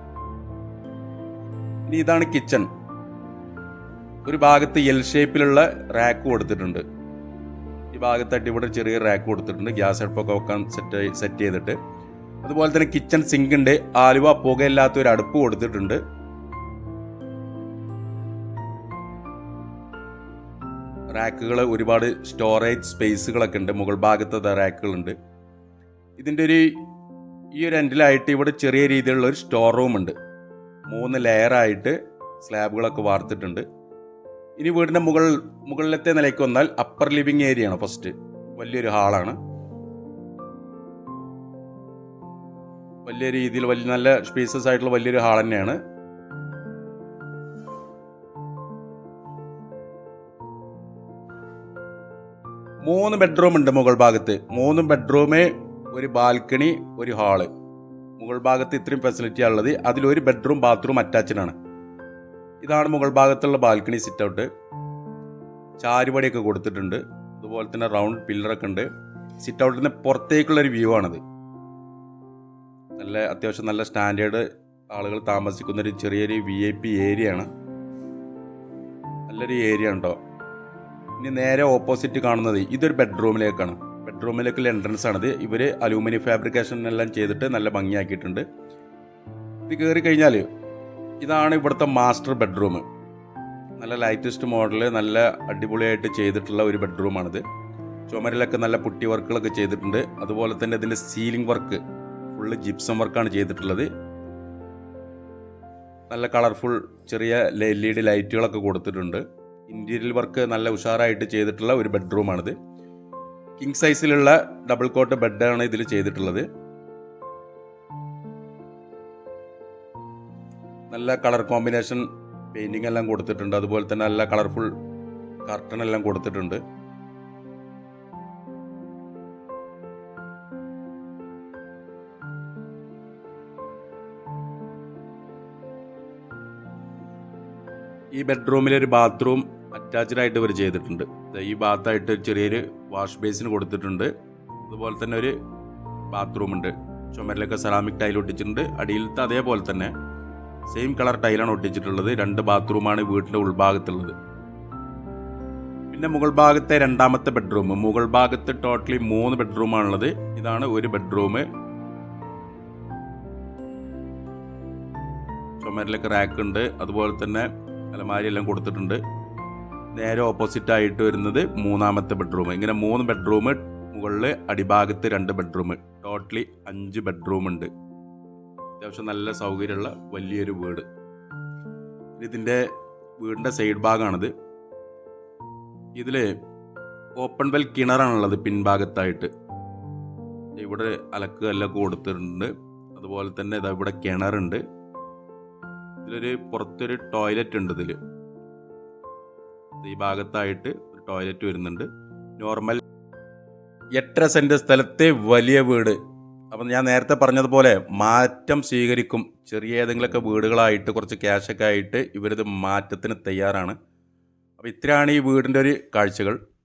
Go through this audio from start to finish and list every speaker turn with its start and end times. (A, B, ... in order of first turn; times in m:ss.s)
0:01.9-0:02.7 A
0:04.2-0:06.8 A
0:07.9-0:11.8 A
0:12.4-0:16.0 A
0:21.1-0:25.2 A
0:26.2-0:26.8 A
0:27.6-0:30.2 A
0:30.9-0:33.6 A
0:34.6-0:39.4 A
0:43.1-0:45.8 A
0:52.8-0:57.5 A
0:58.2-1:01.6 A
1:02.6-1:04.5 A
1:05.8-1:08.9 A
1:09.4-1:11.2 A
1:13.0-1:17.5 A
1:19.3-1:20.2 A
1:21.2-1:28.4 A
1:29.7-1:30.5 A
1:31.2-1:32.8 A
1:33.8-1:37.4 A
1:38.1-1:43.9 A
1:46.1-1:52.6 A
1:53.6-1:56.5 A
2:00.9-2:04.7 A
2:05.5-2:06.6 A
2:18.2-2:24.1 A
2:24.7-2:25.4 A
2:26.1-2:29.9 A
2:30.7-2:34.2 A
2:35.9-2:41.5 A
2:45.6-2:49.0 A
2:50.0-2:57.7 A
2:58.8-3:00.9 A
3:02.2-3:04.3 A
3:06.0-3:06.4 A
3:07.2-3:09.3 A
3:10.6-3:14.6 A
3:16.0-3:18.0 A
3:19.8-3:21.9 A
3:22.4-3:22.8 A
3:24.0-3:26.0 A
3:26.5-3:33.8 A
3:34.6-3:36.4 A